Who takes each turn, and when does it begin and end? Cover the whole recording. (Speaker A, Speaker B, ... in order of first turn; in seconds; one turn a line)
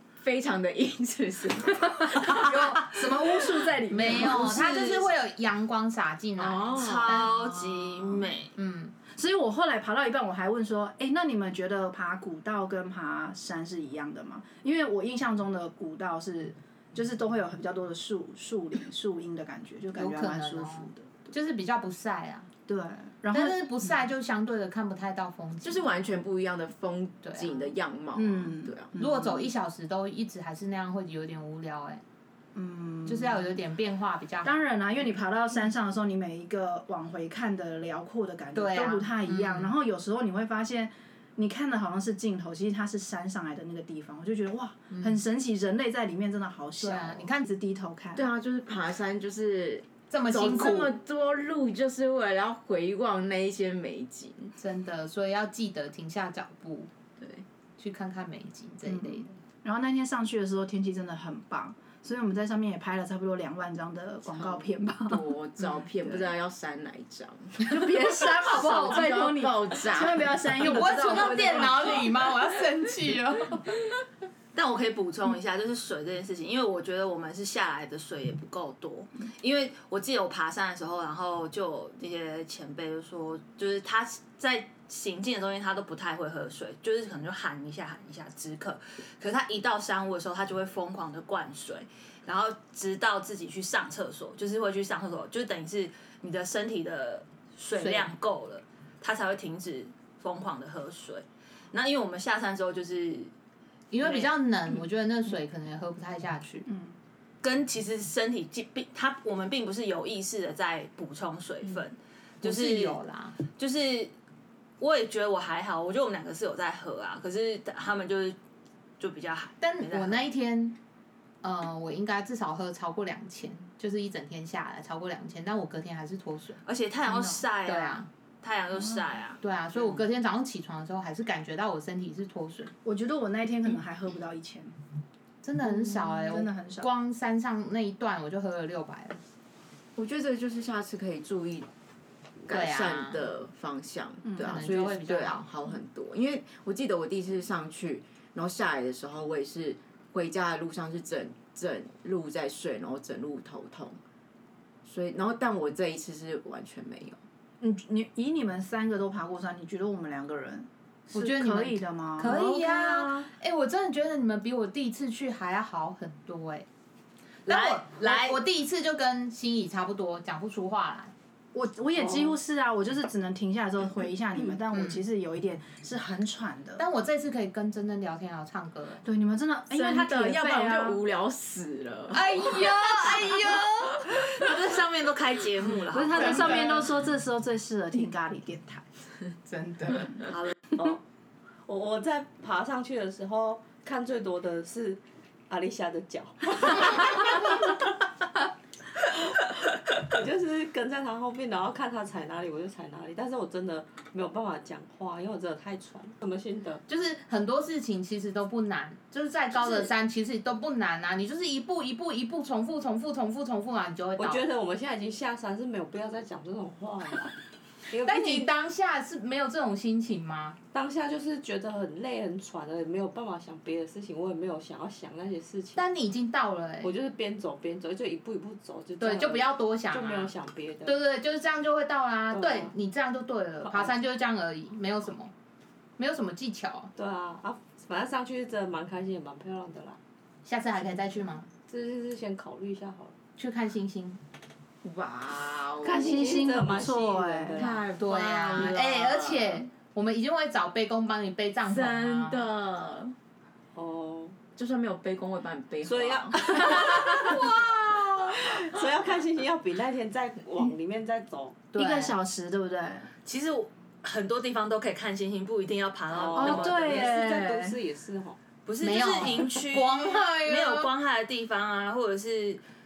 Speaker A: 0.2-3.5
Speaker B: 2.2-4.8
Speaker C: 3.9-7.3
Speaker D: 4.4-5.0
Speaker A: 6.4-8.2
Speaker D: 6.7-8.5
Speaker C: 8.6-8.9
Speaker B: 9.1-21.3
Speaker C: 19.9-22.5
Speaker B: 22.7-23.9
Speaker C: 23.3-25.9
Speaker A: 25.6-28.9
Speaker C: 27.2-27.7
Speaker B: 28.1-29.4
Speaker C: 28.9-32.0
Speaker B: 32.5-33.6
Speaker C: 33.0-34.6
Speaker B: 34.4-48.3
Speaker C: 38.5-39.7
Speaker C: 44.9-45.2
Speaker C: 46.8-47.5
Speaker A: 48.1-54.5
Speaker C: 50.1-50.9
Speaker C: 54.6-56.9
Speaker A: 57.2-57.4
Speaker C: 57.8-59.3
Speaker B: 58.8-65.2
Speaker A: 64.3-67.8
Speaker B: 66.0-66.3
Speaker B: 67.7-72.2
Speaker A: 68.3-71.6
Speaker C: 68.4-69.0
Speaker C: 70.6-73.7
Speaker D: 74.5-103.3
Speaker C: 97.8-98.1
Speaker C: 103.9-106.7
Speaker D: 104.0-104.3
Speaker B: 106.7-107.0
Speaker D: 107.4-114.1
Speaker C: 112.4-113.4
Speaker D: 114.8-118.4
Speaker D: 119.0-120.2
Speaker C: 119.6-120.8
Speaker C: 121.4-126.6
Speaker D: 126.7-130.0
Speaker B: 127.1-127.4
Speaker C: 127.6-128.1
Speaker C: 129.4-132.7
Speaker B: 132.8-134.7
Speaker C: 135.4-139.2
Speaker B: 135.6-136.9
Speaker A: 139.9-141.7
Speaker A: 142.4-154.0
Speaker C: 142.5-143.3
Speaker B: 144.2-144.8
Speaker C: 144.4-145.4
Speaker A: 154.8-157.2
Speaker B: 157.6-163.3
Speaker C: 161.1-166.7
Speaker D: 167.5-168.4
Speaker C: 167.5-171.1
Speaker B: 171.5-176.8
Speaker C: 176.8-179.0
Speaker B: 179.0-181.0
Speaker A: 179.7-183.4
Speaker C: 182.1-183.9
Speaker D: 183.5-186.7
Speaker B: 185.8-188.9
Speaker C: 186.1-186.8
Speaker C: 189.5-190.2
Speaker D: 190.3-190.7
Speaker E: 190.7-191.0
Speaker E: 191.7-197.9
Speaker E: 199.0-206.8
Speaker C: 206.9-214.4
Speaker E: 209.5-209.9
Speaker E: 214.2-217.3
Speaker E: 217.9-218.5
Speaker C: 218.0-220.6
Speaker E: 220.7-225.8
Speaker C: 225.8-226.9
Speaker E: 226.8-231.0
Speaker C: 229.0-230.3
Speaker C: 230.8-235.3
Speaker E: 232.3-232.7
Speaker E: 233.6-233.9
Speaker C: 236.0-236.9
Speaker E: 236.9-240.0
Speaker C: 240.4-241.5
Speaker E: 241.7-243.2
Speaker C: 243.4-244.2
Speaker A: 244.8-246.6
Speaker B: 245.8-247.7
Speaker E: 245.8-247.9
Speaker A: 247.5-249.6
Speaker C: 247.9-252.4
Speaker A: 251.6-253.2
Speaker E: 253.7-254.4
Speaker A: 254.5-257.4
Speaker E: 255.8-261.6
Speaker C: 261.7-262.1
Speaker B: 261.7-263.1
Speaker D: 263.2-267.2
Speaker E: 266.1-268.4
Speaker B: 266.4-267.8
Speaker D: 268.6-272.6
Speaker C: 268.8-270.9